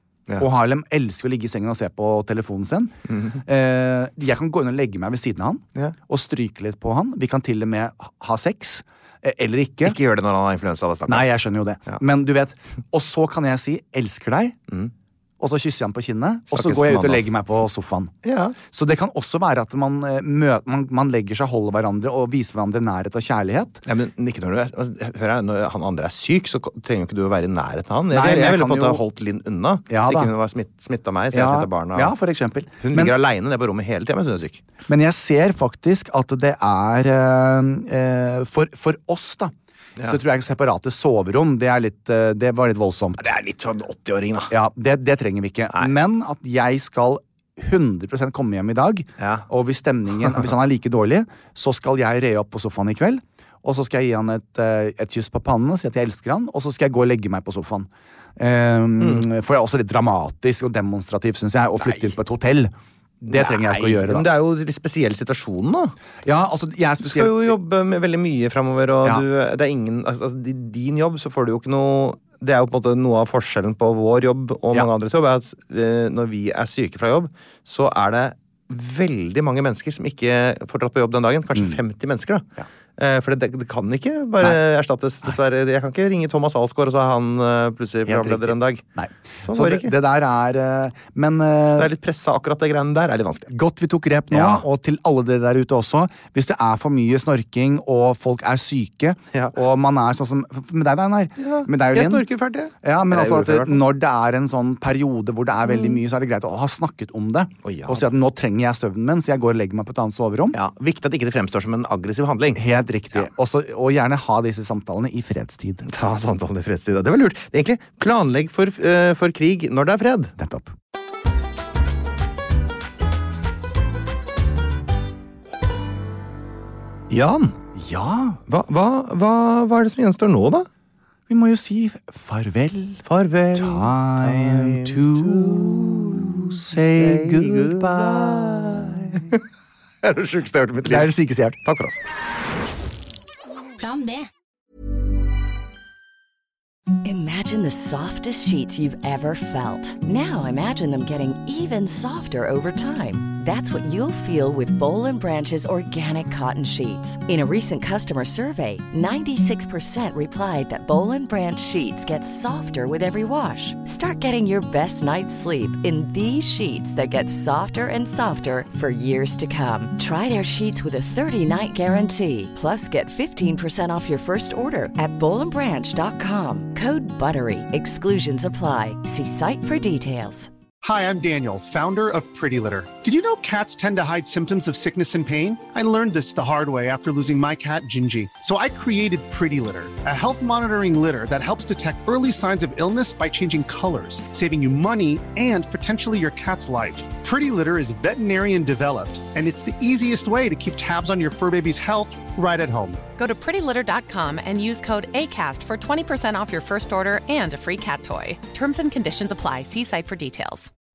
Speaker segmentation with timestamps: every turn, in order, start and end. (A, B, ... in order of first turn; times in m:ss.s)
0:00.4-0:10.0 A
0:03.1-0:03.4 B
0:09.8-0:11.3 B
0:11.1-0:14.6 A
0:15.4-0:18.1 A
0:16.5-0:17.2 B
0:18.2-0:18.6 B
0:18.7-0:23.8 A
0:23.8-0:32.1 B
0:28.1-0:29.0 A
0:29.9-0:30.3 A
0:31.3-0:33.1 A
0:32.8-0:34.6 B
0:34.9-0:43.3 A
0:43.2-0:44.5 B
0:44.5-1:02.7 A
0:49.2-0:49.4 B
0:59.0-0:59.3 B
1:01.8-1:02.1 B
1:03.2-1:04.2 A
1:03.2-1:05.9 B
1:06.2-1:07.5 A
1:07.0-1:28.8 B
1:28.0-1:31.9 A
1:29.4-1:29.9 B
1:31.7-1:33.5 B
1:33.5-1:42.2 A
1:34.3-1:34.6 B
1:41.4-1:43.8 B
1:42.8-1:50.6 A
1:45.7-1:46.0 B
1:47.6-1:48.1 B
1:50.5-1:52.6 B
1:52.5-1:55.8 A
1:55.8-2:00.3 B
2:00.4-2:00.7 A
2:07.1-2:07.6 B
2:07.7-2:08.4 A
2:08.5-2:10.7 B
2:11.3-2:19.3 A
2:13.1-2:19.4 B
2:20.0-2:21.1 B
2:20.8-2:21.6 A
2:21.6-2:22.0 B
2:27.0-3:00.5 C
3:00.8-3:23.0 D
3:23.2-3:30.7 E